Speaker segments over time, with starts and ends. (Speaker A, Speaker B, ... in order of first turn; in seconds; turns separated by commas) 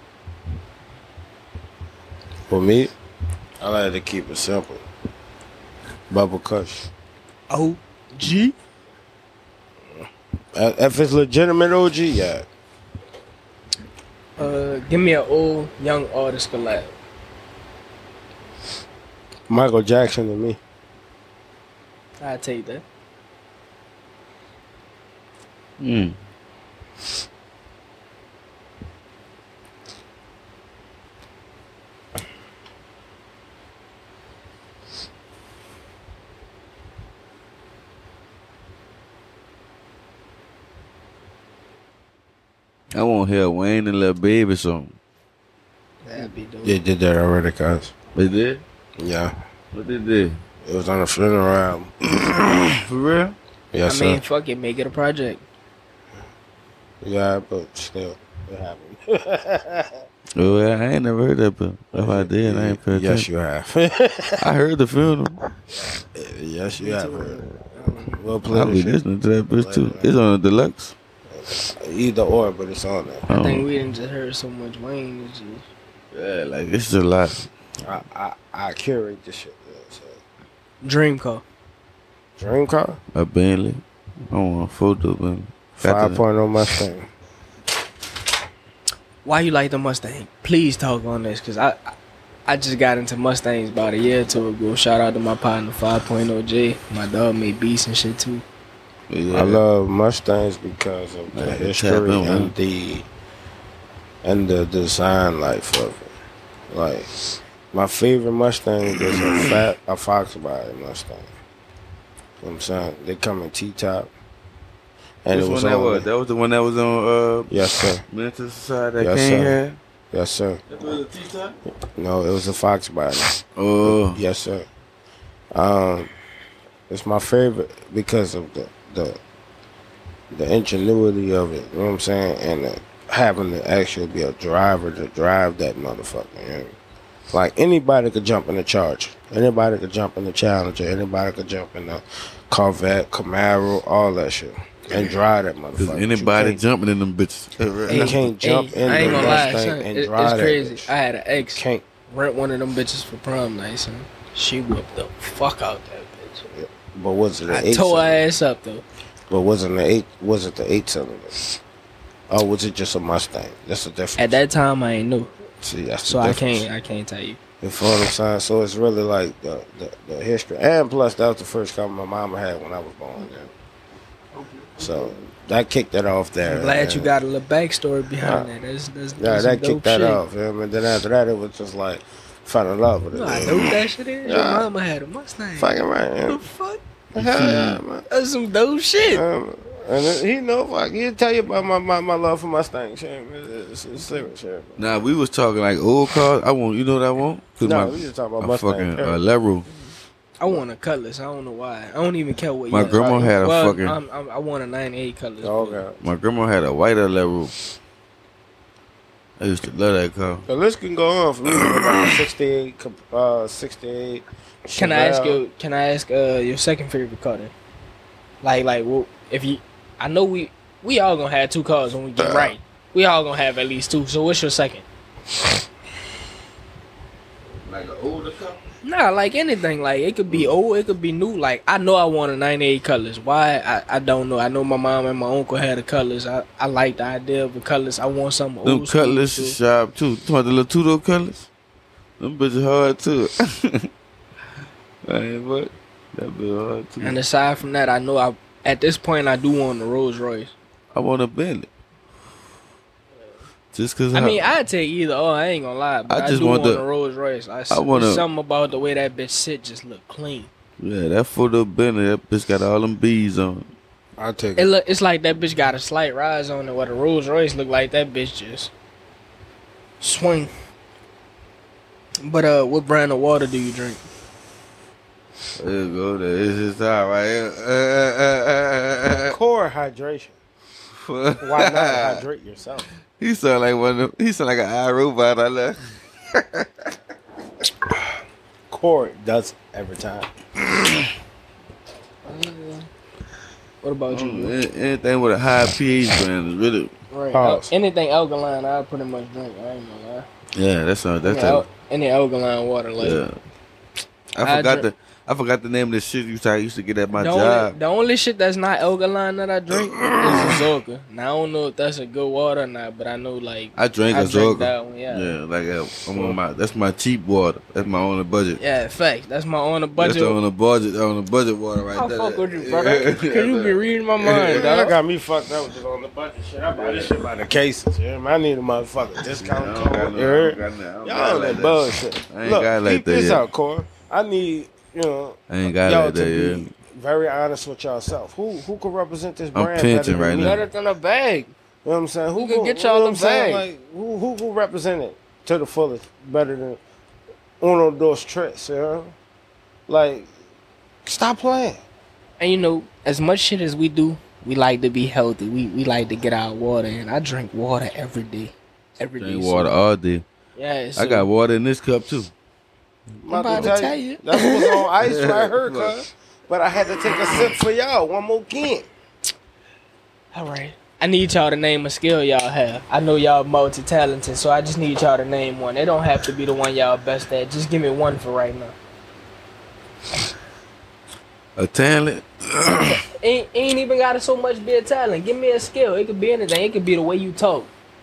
Speaker A: 2.5-2.9, Speaker A: 3.6-4.8, Speaker A: 6.1-6.9, Speaker B: 7.5-8.5, Speaker A: 10.5-12.4, Speaker B: 14.4-16.9, Speaker A: 19.5-20.6, Speaker B: 22.2-22.8, Speaker C: 25.8-26.1, Speaker C: 42.9-44.9, Speaker B: 46.0-46.8, Speaker A: 46.6-47.9, Speaker C: 48.1-48.6, Speaker A: 49.0-49.3, Speaker C: 49.7-50.4, Speaker A: 50.6-51.9, Speaker C: 52.7-53.4, Speaker A: 53.7-54.2, Speaker B: 53.9-55.4, Speaker A: 57.0-60.0, Speaker C: 60.3-63.3, Speaker A: 61.9-64.4, Speaker C: 64.4-65.4, Speaker A: 65.8-70.1, Speaker B: 66.8-68.2, Speaker C: 68.5-70.9, Speaker A: 71.3-73.2, Speaker C: 73.3-73.7, Speaker B: 73.3-75.6, Speaker C: 76.1-77.5, Speaker A: 77.8-80.2, Speaker B: 80.8-81.4, Speaker A: 82.4-83.0, Speaker C: 83.1-86.2, Speaker A: 85.8-87.1, Speaker B: 89.2-91.9, Speaker B: 92.5-98.4, Speaker C: 99.1-99.6, Speaker A: 99.3-103.1, Speaker C: 101.3-102.5, Speaker A: 104.2-106.1, Speaker A: 106.7-107.1, Speaker A: 107.7-111.3, Speaker A: 112.4-114.1, Speaker A: 115.2-116.1, Speaker C: 115.3-117.5, Speaker A: 117.5-118.0, Speaker C: 118.1-119.8, Speaker A: 119.0-119.6, Speaker A: 120.1-120.6, Speaker C: 120.7-121.5, Speaker A: 121.9-124.7, Speaker C: 123.6-124.2, Speaker A: 125.5-126.1, Speaker A: 126.9-129.2, Speaker A: 130.3-136.7, Speaker A: 137.3-146.6, Speaker C: 145.8-148.3, Speaker A: 147.9-150.9, Speaker B: 147.9-156.5, Speaker C: 148.8-149.4, Speaker A: 151.5-151.8, Speaker A: 156.5-158.2, Speaker B: 157.5-158.8, Speaker A: 159.3-161.3, Speaker A: 162.3-164.4, Speaker B: 164.2-165.3, Speaker A: 165.6-166.7, Speaker B: 166.0-167.4, Speaker A: 167.6-173.5, Speaker A: 174.8-177.1, Speaker B: 176.4-180.2, Speaker A: 178.2-178.5, Speaker A: 179.2-184.7, Speaker B: 183.1-186.8, Speaker A: 185.6-186.4, Speaker A: 187.1-188.0, Speaker C: 187.2-187.8, Speaker B: 188.1-189.2, Speaker A: 189.1-194.8, Speaker C: 194.8-199.7, Speaker A: 197.6-199.2, Speaker B: 200.4-205.8, Speaker C: 202.7-203.9, Speaker A: 202.8-203.4, Speaker A: 205.4-206.0, Speaker C: 206.0-207.5, Speaker C: 209.4-210.4, Speaker A: 210.5-215.4, Speaker B: 214.7-217.5, Speaker B: 218.4-224.8, Speaker A: 222.2-222.5, Speaker C: 227.6-228.7, Speaker B: 228.8-239.6, Speaker C: 238.6-241.5, Speaker C: 242.2-243.9, Speaker C: 245.1-247.2, Speaker B: 247.0-250.5, Speaker C: 250.9-251.7, Speaker C: 253.7-254.5, Speaker B: 254.1-260.5, Speaker C: 256.1-256.8, Speaker C: 257.7-258.2, Speaker C: 260.8-263.7, Speaker A: 264.2-264.7, Speaker B: 264.6-268.7, Speaker B: 270.0-270.5, Speaker B: 272.2-274.0, Speaker C: 275.6-279.4, Speaker A: 279.3-280.4, Speaker C: 281.0-282.2, Speaker A: 281.4-282.9, Speaker C: 283.2-286.9, Speaker A: 288.7-290.3, Speaker B: 292.2-292.9, Speaker B: 293.8-294.5, Speaker C: 294.1-296.9, Speaker B: 297.1-300.3, Speaker A: 297.3-297.7, Speaker C: 300.5-301.6, Speaker B: 301.2-303.2, Speaker C: 303.0-303.4, Speaker C: 304.4-307.8, Speaker B: 304.4-304.9, Speaker B: 307.1-315.3, Speaker C: 310.0-310.6, Speaker C: 313.7-318.6, Speaker B: 318.6-320.4, Speaker C: 320.0-324.6, Speaker B: 321.9-324.9, Speaker A: 324.5-340.6, Speaker C: 329.3-333.4, Speaker C: 335.5-336.7, Speaker C: 339.5-340.6, Speaker B: 340.4-341.5, Speaker A: 341.8-346.8, Speaker B: 342.4-343.6, Speaker A: 347.6-349.1, Speaker A: 349.9-350.3, Speaker A: 351.0-351.8, Speaker B: 352.4-359.7, Speaker C: 359.2-360.2, Speaker B: 360.6-361.3, Speaker C: 361.0-362.3, Speaker A: 363.2-368.9, Speaker B: 363.3-364.9, Speaker C: 365.1-365.9, Speaker B: 370.3-378.7, Speaker C: 381.6-382.9, Speaker B: 382.8-387.7